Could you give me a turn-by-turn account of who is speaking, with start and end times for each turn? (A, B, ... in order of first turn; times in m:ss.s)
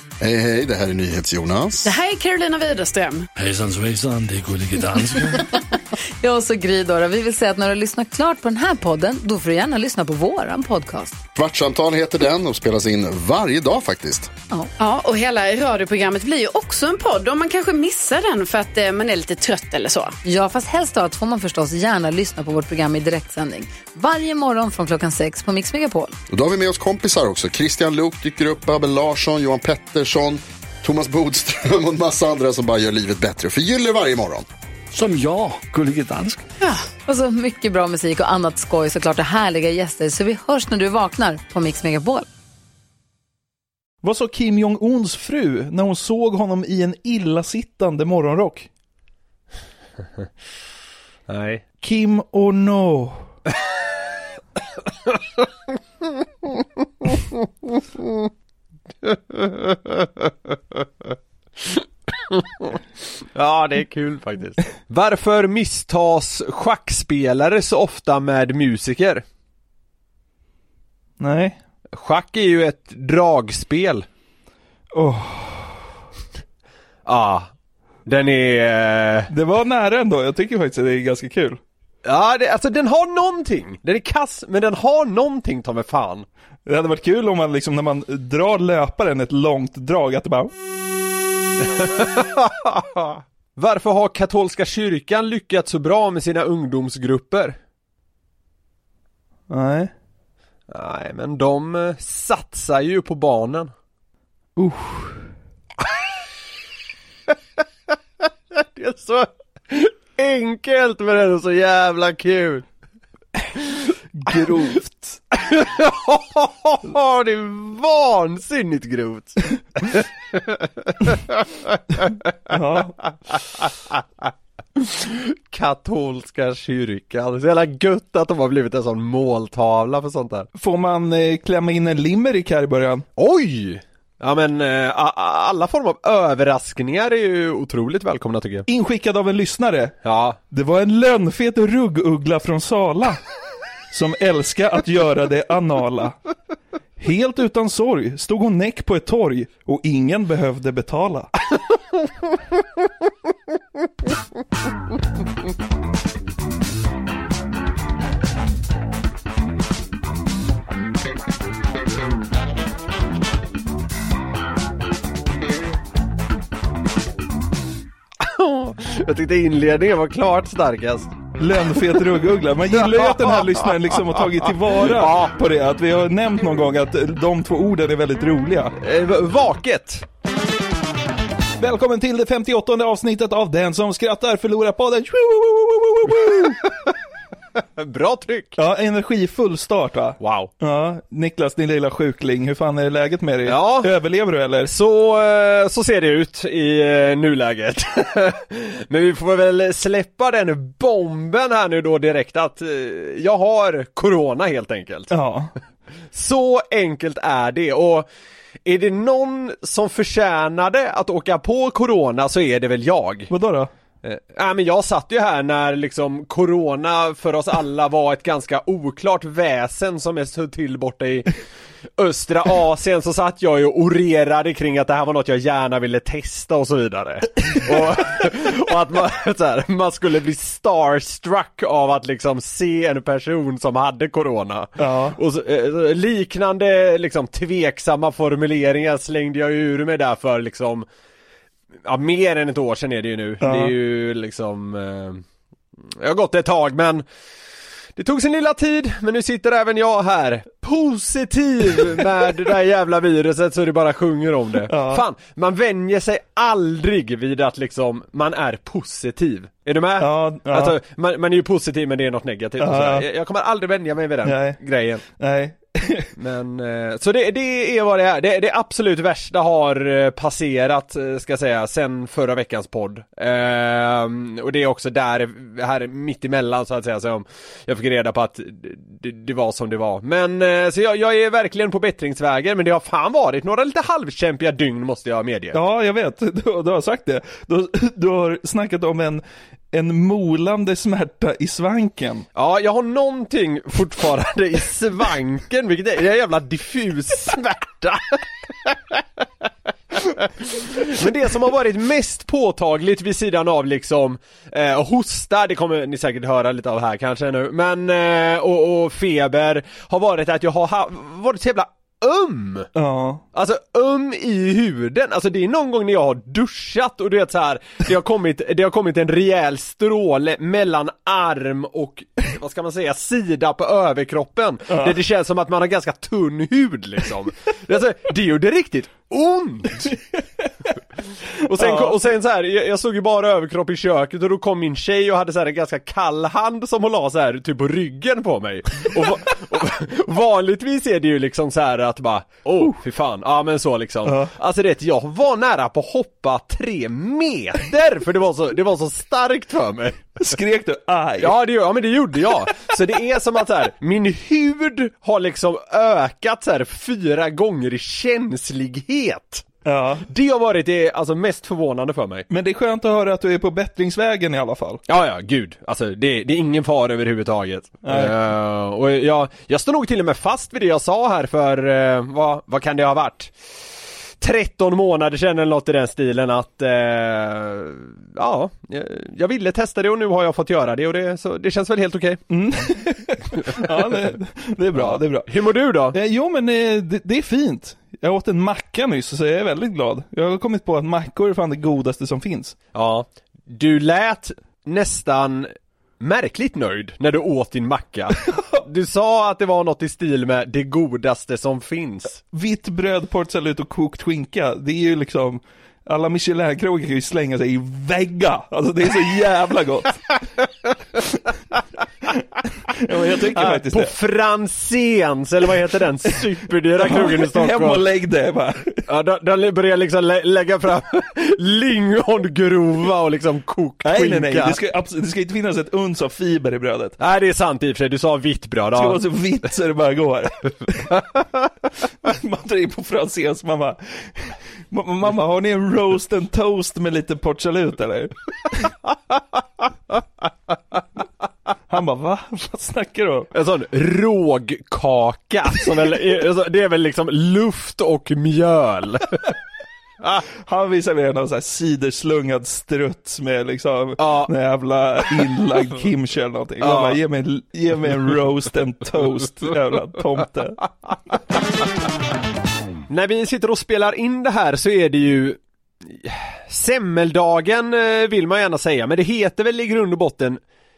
0:00.2-0:01.9 A
0:01.8-0:03.3 B
0:03.4-0:05.1 C
0:06.2-0:11.2 D
0:11.3-0:14.3 A
0:14.8-0:20.2 B
0:20.2-0:26.1 D
0:26.3-0:34.4 A
0:34.9-0:36.4 C
0:36.6-0:42.2 D
0:44.0-0:48.7 E
0:51.3-0:51.6 F
0:51.8-0:53.2 E
0:55.1-0:55.4 F
0:59.0-1:00.0 F
1:02.3-1:02.7 F
1:03.3-1:09.2 F
1:11.2-1:11.6 E
1:12.0-1:14.0 F
1:14.9-1:15.9 E
1:17.0-1:17.5 F
1:18.0-1:19.3 F
1:19.3-1:21.6 E
1:22.0-1:26.3 F
1:26.6-1:30.5 E
1:31.6-1:37.6 F
1:39.5-1:39.9 E
1:40.7-1:43.7 F
1:44.6-1:45.3 E
1:48.5-1:52.6 F
1:54.1-1:55.2 E
1:55.4-2:02.1 F
2:02.5-2:03.0 E
2:03.5-2:04.0 F
2:04.8-2:10.5 F
2:10.5-2:13.1 E
2:13.2-2:18.6 F
2:18.6-2:20.0 E
2:20.0-2:20.4 F
2:20.5-2:23.2 E
2:23.9-2:26.2 E
2:27.0-2:31.3 E
2:48.2-2:51.1 F
2:51.4-2:58.7 E
2:52.7-2:53.6 F
2:54.6-2:55.3 F
2:58.8-3:00.0 F
3:01.6-3:06.7 E
3:07.6-3:08.6 F
3:08.6-3:14.7 E
3:10.2-3:10.5 F
3:13.4-3:13.9 F
3:14.6-3:25.1 F
3:25.1-3:25.5 E
3:26.1-3:28.1 F
3:28.6-3:33.3 F
3:33.3-3:33.7 E
3:34.0-3:41.3 F
3:42.0-4:00.8 F
3:54.8-3:55.2 E
4:01.8-4:05.2 F
4:03.4-4:03.7 E
4:05.9-4:07.0 F
4:08.0-4:25.0 F
4:14.7-4:15.0 E
4:20.0-4:20.8 E
4:22.6-4:23.1 E
4:24.2-4:26.1 E
4:26.2-4:45.6 F
4:45.5-4:52.2 E
4:52.3-4:59.0 F
5:00.1-5:12.7 F
5:12.7-5:13.2 E
5:13.3-5:29.9 F
5:24.7-5:25.0 E
5:29.9-5:30.5 E
5:31.4-5:50.0 F
5:31.5-5:32.0 E
5:44.0-5:44.3 E
5:50.2-5:51.4 E
5:51.2-5:59.5 F
5:59.6-6:00.0 E
6:00.1-6:02.3 F
6:02.3-6:04.8 E
6:04.9-6:13.3 F
6:07.8-6:08.1 E
6:14.2-6:22.2 F
6:22.3-6:25.3 E
6:24.7-6:26.0 F
6:25.9-6:32.6 E
6:32.7-6:42.2 F
6:42.3-6:50.0 E
6:52.7-6:53.9 E
6:53.3-6:57.8 F
6:56.8-6:58.8 E
6:58.9-7:04.6 F
7:03.8-7:07.0 E
7:07.0-7:09.0 F
7:08.7-7:10.9 E
7:12.0-7:18.7 E
7:21.7-7:23.3 E
7:23.3-7:29.3 F
7:30.4-7:40.6 E
7:34.0-7:34.3 F
7:36.6-7:37.0 F
7:42.9-7:50.4 F